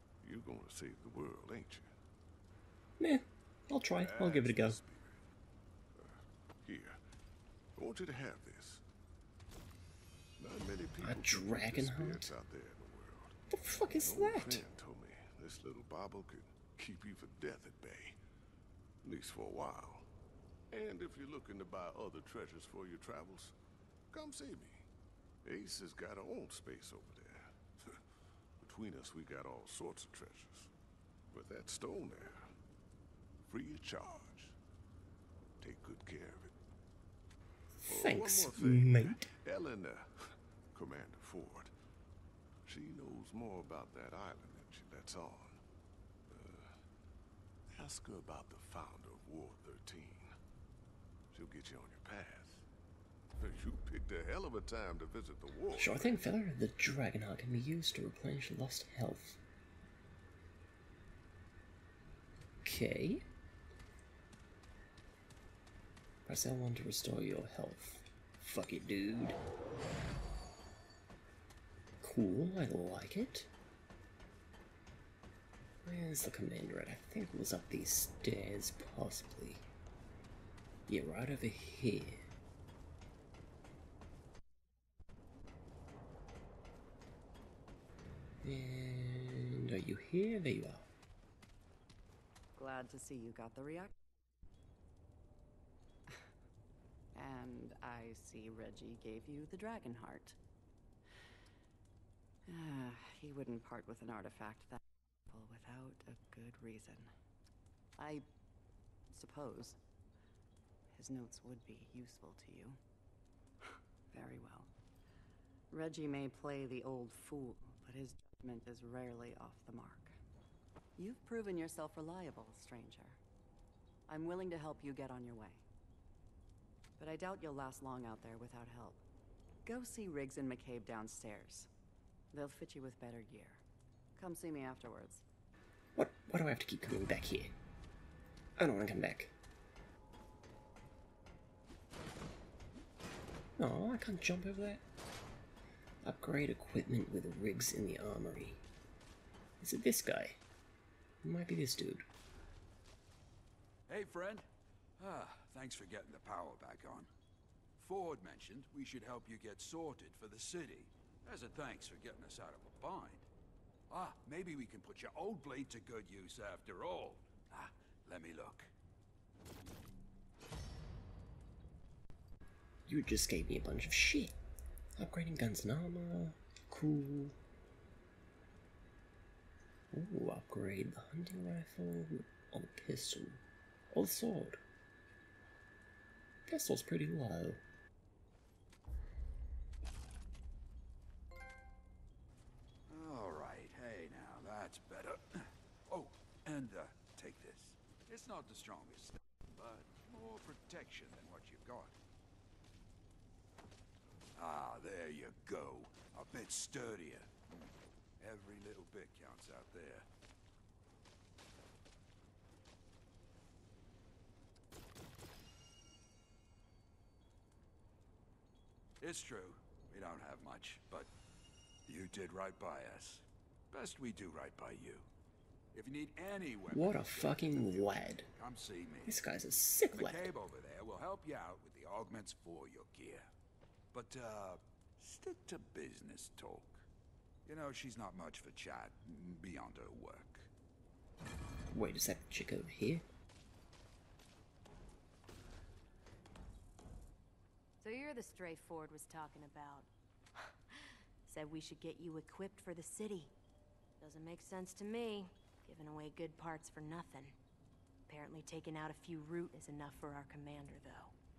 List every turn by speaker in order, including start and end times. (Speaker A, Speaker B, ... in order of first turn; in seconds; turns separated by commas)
Speaker A: 0.2-1.9, Speaker B: 3.0-4.8, Speaker A: 3.8-5.3, Speaker A: 5.9-7.0, Speaker A: 7.8-8.8, Speaker A: 10.4-13.4, Speaker B: 11.0-12.3, Speaker B: 13.5-14.7, Speaker A: 13.9-18.2, Speaker A: 19.0-20.1, Speaker A: 20.7-23.5, Speaker A: 24.1-24.9, Speaker A: 25.4-28.0, Speaker A: 28.6-30.7, Speaker A: 31.3-32.5, Speaker A: 33.5-34.6, Speaker A: 35.6-36.6, Speaker B: 37.8-39.3, Speaker A: 37.9-41.7, Speaker A: 42.7-45.6, Speaker A: 46.3-46.8, Speaker A: 47.7-50.3, Speaker A: 51.3-52.6, Speaker A: 53.4-56.3, Speaker B: 55.7-59.4, Speaker B: 62.6-63.2, Speaker B: 66.3-69.4, Speaker B: 72.0-73.5, Speaker B: 75.8-79.7, Speaker B: 80.9-82.3, Speaker B: 88.4-90.9, Speaker C: 92.6-93.9, Speaker C: 97.2-100.4, Speaker C: 102.5-107.1, Speaker C: 108.0-108.2, Speaker C: 109.1-109.8, Speaker C: 110.9-112.8, Speaker C: 114.1-114.7, Speaker C: 115.7-120.2, Speaker C: 121.0-123.2, Speaker C: 124.1-125.6, Speaker C: 127.0-129.0, Speaker C: 129.7-131.7, Speaker C: 132.3-133.6, Speaker C: 134.2-135.2, Speaker B: 135.9-137.5, Speaker B: 138.6-139.3, Speaker B: 143.6-144.8, Speaker B: 146.0-148.6, Speaker B: 149.6-150.4, Speaker B: 151.2-152.1, Speaker D: 153.9-154.4, Speaker D: 155.0-157.1, Speaker D: 157.8-163.3, Speaker D: 163.9-168.7, Speaker B: 172.9-174.3, Speaker B: 175.0-177.4, Speaker B: 179.9-184.6, Speaker B: 186.5-187.6, Speaker D: 192.9-202.0, Speaker D: 204.3-210.1, Speaker D: 219.0-221.1, Speaker D: 221.9-225.1, Speaker D: 225.7-229.2, Speaker B: 226.7-228.3, Speaker B: 229.1-230.3, Speaker D: 229.9-233.3, Speaker D: 233.9-236.9, Speaker D: 237.5-240.5, Speaker B: 241.7-243.1, Speaker E: 247.8-249.9, Speaker E: 250.4-253.3, Speaker E: 254.0-257.4, Speaker E: 258.1-261.1